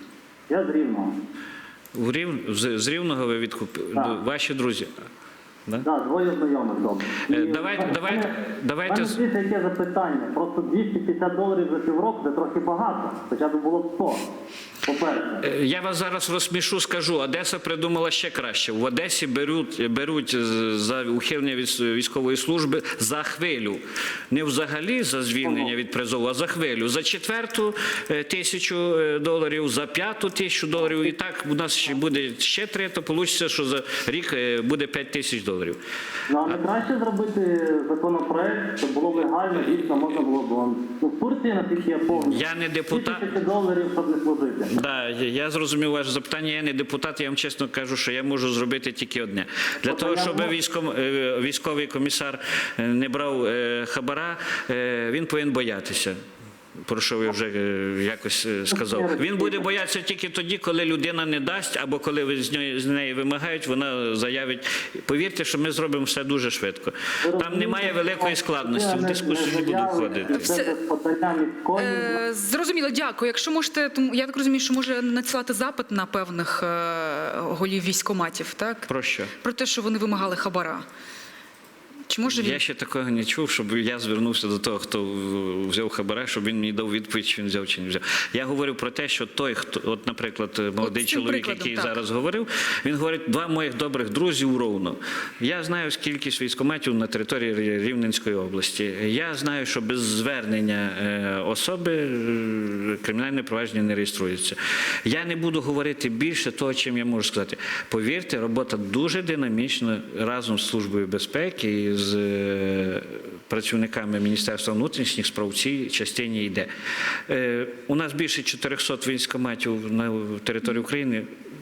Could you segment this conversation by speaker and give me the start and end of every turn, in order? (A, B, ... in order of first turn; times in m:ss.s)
0:00.5-0:01.1 A
0:01.9-0:04.9 B
0:05.8-0:14.2 A
0:07.3-0:09.2 B
0:14.8-0:15.5 A
0:15.4-0:35.8 B
0:25.4-0:25.7 A
0:36.3-0:44.8 A
0:42.2-0:43.2 B
0:44.7-0:56.1 B
0:49.8-0:50.5 A
0:56.8-1:10.4 B
0:58.7-0:59.6 A
1:07.2-1:12.2 A
1:10.3-1:10.7 C
1:11.8-1:18.9 C
1:18.9-1:19.3 B
1:19.4-1:20.8 C
1:22.1-1:22.6 C
1:22.3-1:56.7 B
1:30.8-1:32.0 C
1:57.3-2:01.3 B